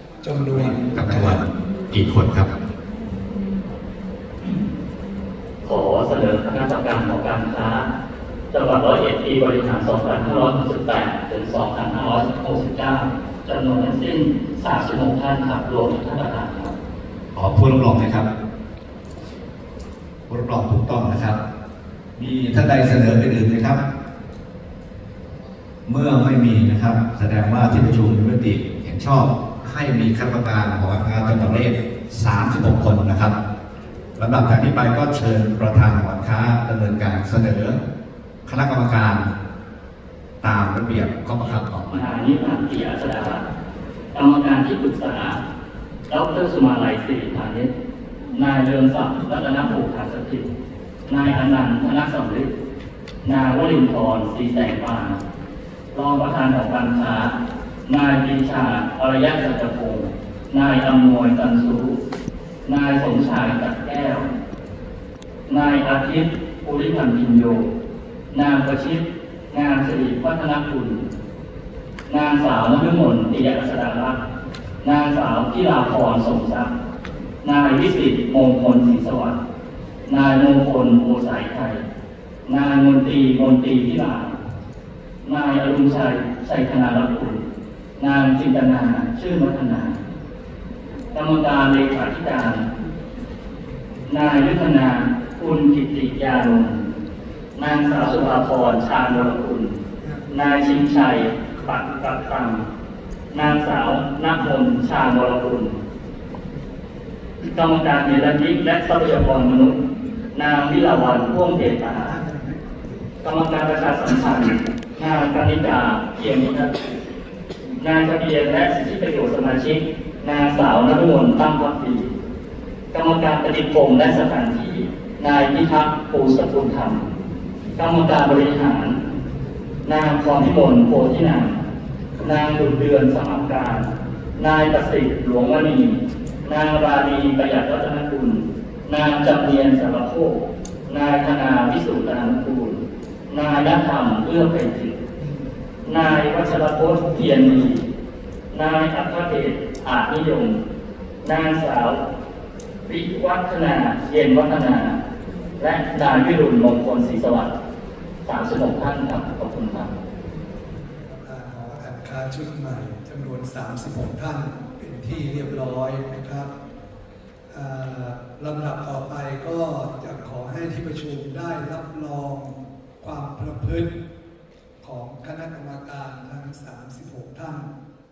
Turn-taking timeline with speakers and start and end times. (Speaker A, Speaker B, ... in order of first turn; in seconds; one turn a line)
Speaker A: 0.2-1.4
Speaker B: 0.5-2.5
Speaker C: 5.7-7.9
Speaker C: 8.5-16.8
Speaker B: 17.3-18.3
Speaker B: 20.3-21.4
Speaker B: 22.2-23.8
Speaker B: 25.9-33.4
Speaker B: 34.2-37.8
Speaker B: 38.5-39.3
Speaker B: 40.4-42.1
Speaker C: 41.9-43.5
Speaker C: 44.1-45.4
Speaker C: 46.1-47.7
Speaker C: 48.4-50.5
Speaker C: 51.1-52.5
Speaker C: 53.2-55.2
Speaker C: 55.9-57.3
Speaker C: 57.9-62.0
Speaker C: 62.6-64.3
Speaker C: 65.5-67.7
Speaker C: 68.3-71.0
Speaker C: 72.1-74.2
Speaker C: 74.8-76.7
Speaker C: 77.4-79.4
Speaker C: 80.1-81.8
Speaker C: 82.5-84.4
Speaker C: 85.2-87.4
Speaker C: 88.0-90.0
Speaker C: 91.1-92.7
Speaker C: 94.1-96.8
Speaker C: 97.6-99.8
Speaker A: 100.0-100.3
Speaker C: 100.3-102.7
Speaker C: 103.3-105.8
Speaker C: 107.5-109.8
Speaker C: 110.3-112.2
Speaker C: 113.2-116.8
Speaker C: 117.8-122.1
Speaker C: 122.9-127.0
Speaker C: 127.8-129.0
Speaker C: 129.8-131.6
Speaker C: 132.2-145.0
Speaker C: 145.8-147.8
Speaker C: 148.5-150.6
Speaker C: 151.2-152.0
Speaker C: 152.9-155.0
Speaker C: 155.6-157.5
Speaker C: 158.3-159.9
Speaker A: 161.2-166.5
Speaker A: 167.5-173.9
Speaker A: 174.8-177.7